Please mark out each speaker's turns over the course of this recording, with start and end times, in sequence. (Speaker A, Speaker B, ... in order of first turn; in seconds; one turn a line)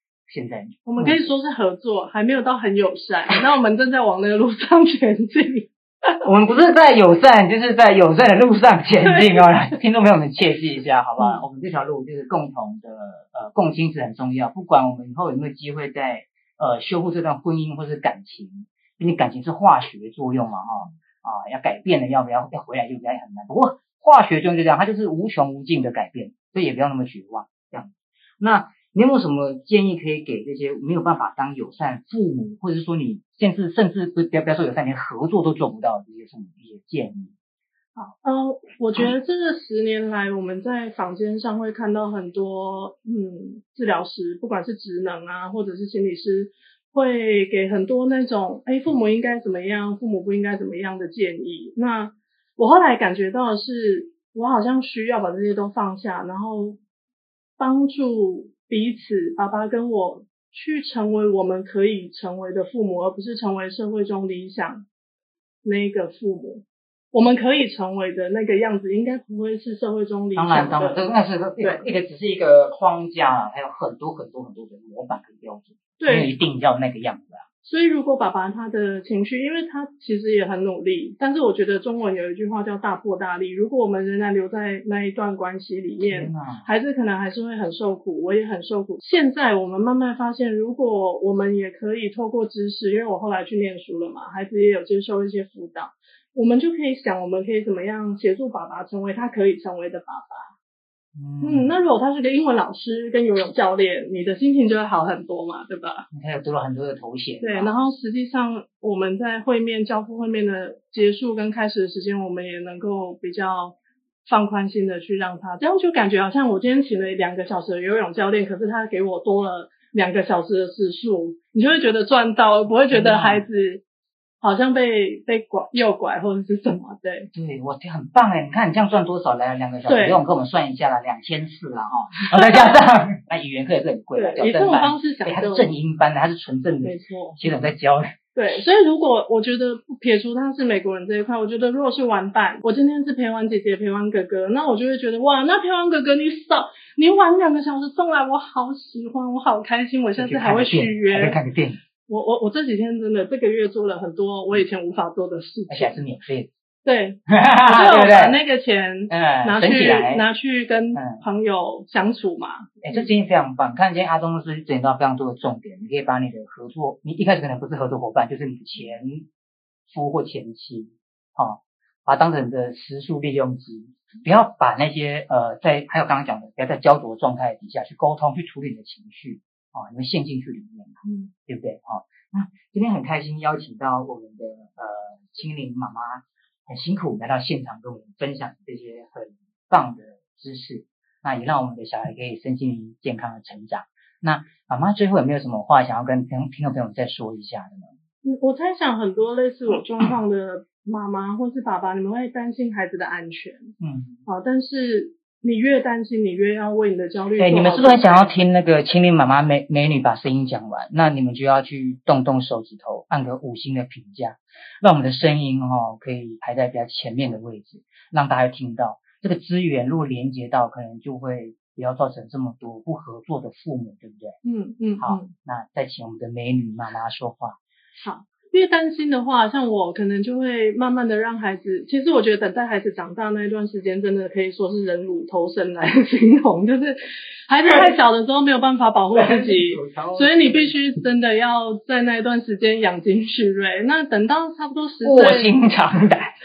Speaker A: 0.3-1.2
Speaker B: 0.8-5.7
Speaker A: 6.2-37.3
Speaker B: 38.0-56.8
Speaker B: 57.6-64.8
Speaker B: 65.6-71.0
Speaker A: 70.3-77.4
Speaker B: 71.6-71.8
Speaker B: 76.0-76.3
Speaker B: 77.6-100.5
Speaker A: 86.0-86.7
Speaker A: 101.2-101.7
Speaker B: 101.4-106.1
Speaker A: 106.1-107.7
Speaker B: 107.4-123.8
Speaker A: 122.9-123.4
Speaker B: 124.4-127.3
Speaker A: 127.3-138.1
Speaker B: 129.9-130.2
Speaker B: 132.2-132.8
Speaker B: 134.1-135.7
Speaker B: 136.8-137.4
Speaker B: 138.3-151.4
Speaker A: 150.2-151.8
Speaker B: 152.1-156.0
Speaker A: 155.7-156.5
Speaker B: 156.8-163.1
Speaker A: 157.3-158.4
Speaker A: 159.1-160.2
Speaker A: 160.9-161.2
Speaker A: 162.8-169.3
Speaker A: 169.9-197.9
Speaker B: 181.0-181.3
Speaker B: 198.2-203.7
Speaker A: 203.8-204.2
Speaker B: 204.2-208.3
Speaker A: 207.4-224.4
Speaker B: 224.4-225.3
Speaker A: 225.0-227.6
Speaker B: 228.0-245.5
Speaker A: 239.1-240.8
Speaker A: 245.0-246.3